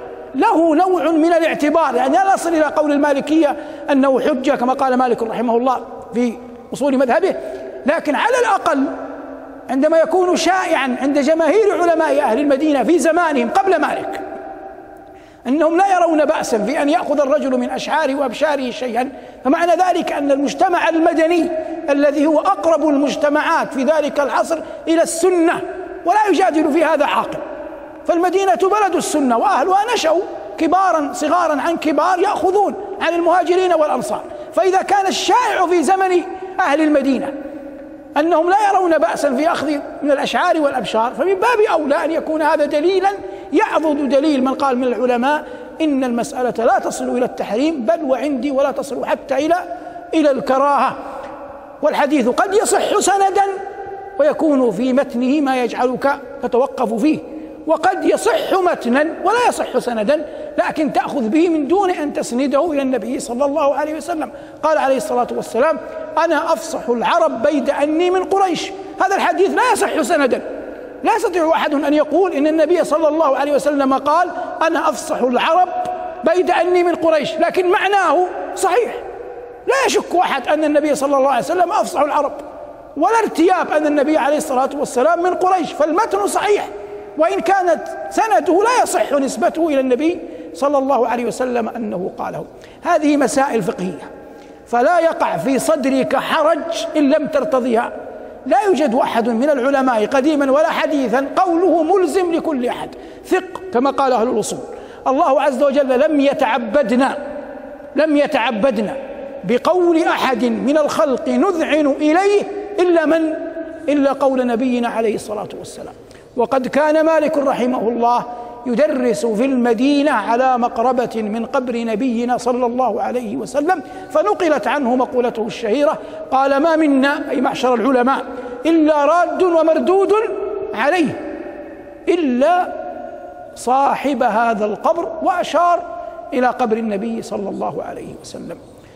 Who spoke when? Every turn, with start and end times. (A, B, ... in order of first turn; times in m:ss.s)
0:00.3-0:08.9 A
0:09.7-0:14.2 A
0:15.4-0:27.4 A
0:28.0-0:37.3 A
0:38.2-0:51.0 A
0:51.8-0:53.5 A
0:54.2-1:10.4 A
1:11.0-1:19.0 A
1:19.6-1:22.4 A
1:23.0-1:34.1 A
1:34.7-1:37.9 A
1:38.4-1:47.2 A
1:47.9-2:11.2 A
2:12.1-2:12.8 A
2:13.6-2:18.6 A